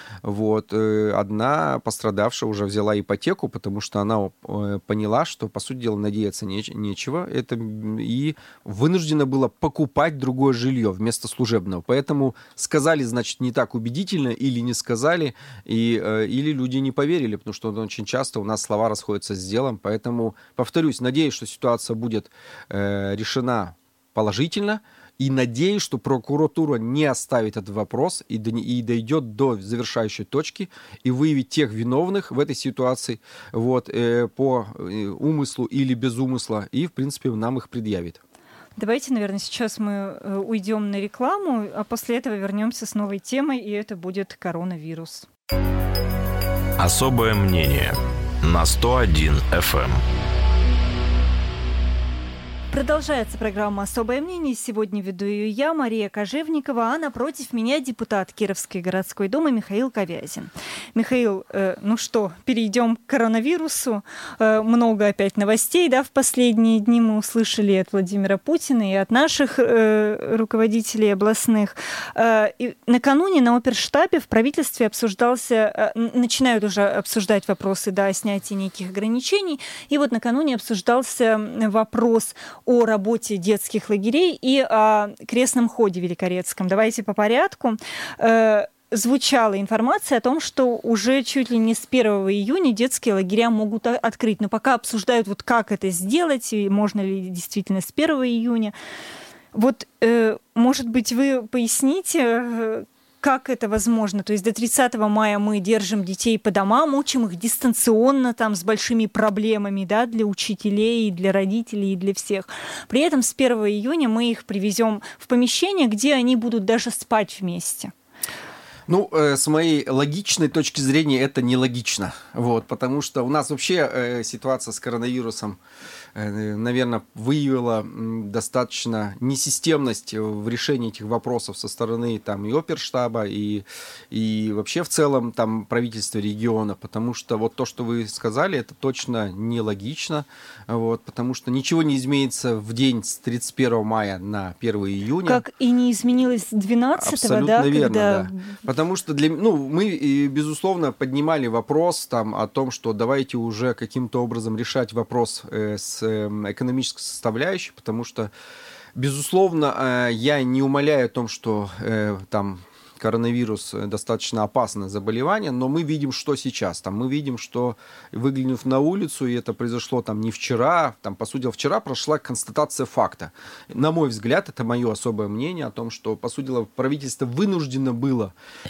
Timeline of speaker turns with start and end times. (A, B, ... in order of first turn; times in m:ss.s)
0:00.2-0:38.2 A
0:38.8-0:45.3 B
0:46.8-0:50.0 C
0:52.7-1:38.7 B
1:39.5-1:57.9 B
1:58.9-2:05.6 A
2:06.2-2:25.4 A
2:25.2-2:28.6 B
2:27.0-2:38.3 A
2:39.0-2:58.3 A